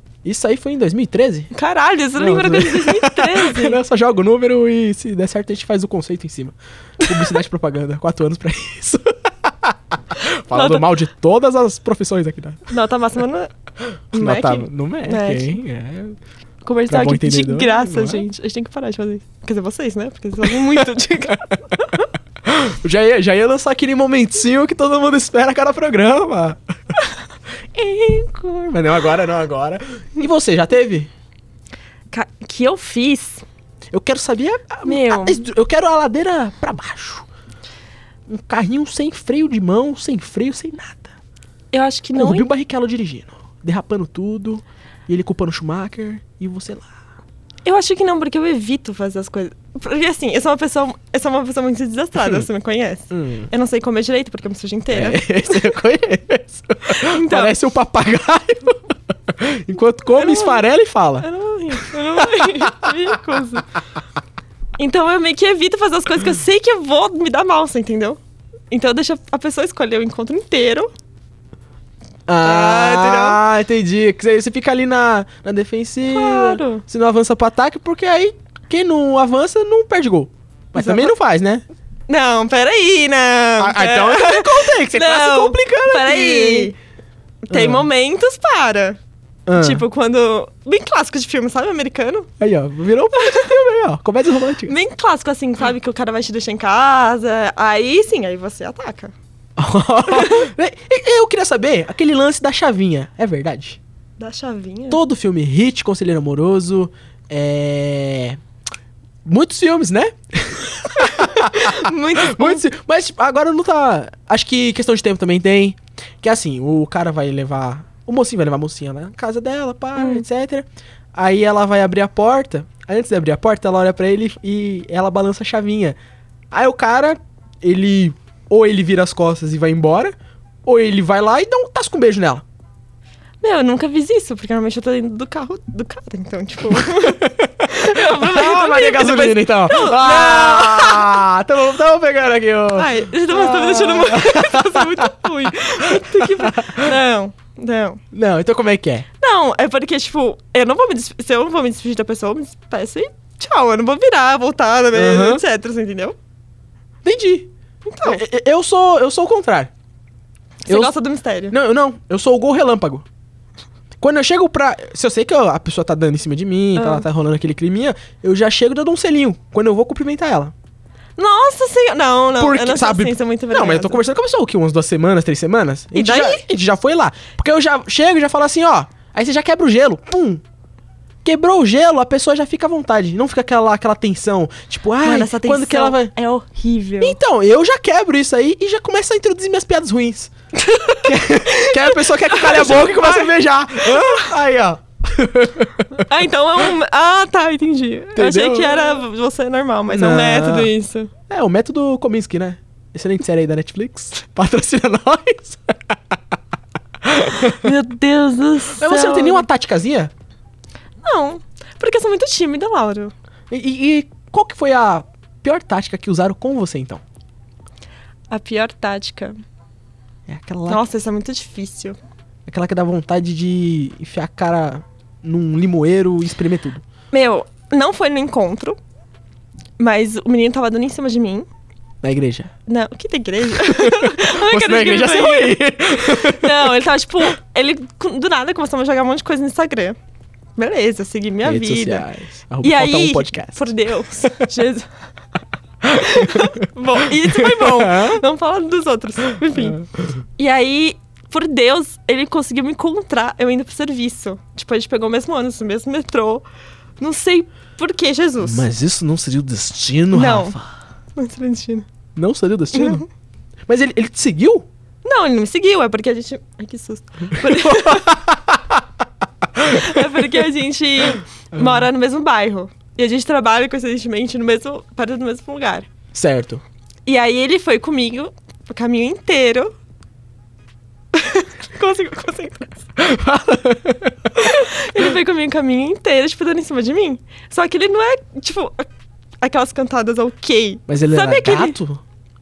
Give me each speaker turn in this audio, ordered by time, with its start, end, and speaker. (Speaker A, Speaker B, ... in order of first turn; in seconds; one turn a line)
Speaker A: 0.2-1.5
Speaker B: 1.5-3.8
Speaker A: 2.2-12.7
Speaker B: 7.0-7.4
Speaker B: 10.5-10.8
Speaker B: 12.7-13.5
Speaker B: 14.1-15.6
Speaker A: 14.1-16.2
Speaker B: 16.6-22.1
Speaker A: 16.9-18.2
Speaker A: 22.4-26.6
Speaker A: 27.8-31.1
Speaker B: 32.1-33.4
Speaker A: 33.9-37.2
Speaker B: 34.9-35.4
Speaker A: 38.3-41.1
Speaker B: 41.7-42.5
Speaker A: 42.1-46.9
Speaker B: 47.6-55.7
Speaker A: 53.1-53.5
Speaker A: 54.9-61.3
Speaker B: 57.0-57.5
Speaker B: 60.1-60.6
Speaker B: 61.2-63.6
Speaker A: 61.8-62.6
Speaker B: 64.8-68.2
Speaker B: 68.7-70.9
Speaker A: 72.3-81.6
Speaker B: 72.4-73.4
Speaker B: 76.1-76.8
Speaker B: 80.8-81.1
Speaker B: 82.1-86.7
Speaker A: 83.6-86.7
Speaker B: 87.5-89.0
Speaker A: 87.5-87.8
Speaker A: 89.5-89.8
Speaker B: 89.5-92.3
Speaker A: 92.4-94.7
Speaker B: 93.2-93.5
Speaker B: 94.7-99.1
Speaker A: 99.6-103.8
Speaker B: 100.2-100.4
Speaker B: 104.2-105.0
Speaker A: 104.9-108.4
Speaker A: 109.2-126.0
Speaker B: 111.0-112.6
Speaker B: 120.0-120.2
Speaker A: 126.5-132.4
Speaker B: 133.4-141.2
Speaker A: 136.8-146.9
Speaker B: 142.7-148.0
Speaker A: 148.1-149.1
Speaker B: 149.2-156.1
Speaker A: 154.9-155.4
Speaker A: 157.0-157.5
Speaker B: 157.8-158.2
Speaker A: 158.0-159.7
Speaker B: 160.7-161.5
Speaker A: 160.7-160.9
Speaker A: 161.5-163.0
Speaker A: 164.0-170.5
Speaker B: 166.8-167.0
Speaker B: 171.2-174.0
Speaker A: 172.3-180.4
Speaker B: 175.9-176.4
Speaker A: 181.2-186.1
Speaker B: 185.0-187.2
Speaker A: 187.0-190.3
Speaker B: 190.5-194.3
Speaker A: 191.0-196.1
Speaker B: 196.0-201.1
Speaker A: 198.1-199.0
Speaker A: 199.9-200.7
Speaker A: 201.3-206.1
Speaker A: 207.0-207.6
Speaker B: 207.6-209.4
Speaker A: 208.8-210.1
Speaker B: 211.0-213.1
Speaker A: 213.5-217.0
Speaker B: 218.3-219.3
Speaker A: 220.3-220.8
Speaker B: 220.7-222.0
Speaker A: 222.5-226.8
Speaker B: 227.1-228.8
Speaker B: 229.8-231.5
Speaker A: 232.0-232.5
Speaker B: 232.7-240.0
Speaker A: 233.6-236.7
Speaker B: 240.6-242.1
Speaker A: 241.4-243.7
Speaker B: 242.6-244.8
Speaker A: 245.9-246.5
Speaker B: 245.9-249.8
Speaker A: 247.3-248.2
Speaker A: 249.6-250.1
Speaker B: 250.4-256.4
Speaker B: 257.0-258.6
Speaker A: 258.4-260.7
Speaker B: 260.1-260.6
Speaker B: 261.1-261.9
Speaker A: 262.1-263.0
Speaker B: 262.7-263.0
Speaker A: 263.7-264.6
Speaker B: 265.0-268.1
Speaker A: 267.4-268.8
Speaker A: 269.6-270.0
Speaker B: 269.7-275.9
Speaker A: 271.5-271.9
Speaker A: 276.1-276.6
Speaker B: 277.1-279.7
Speaker B: 281.1-282.8
Speaker A: 283.0-284.7
Speaker B: 284.4-288.9
Speaker B: 289.4-291.8
Speaker A: 290.9-292.0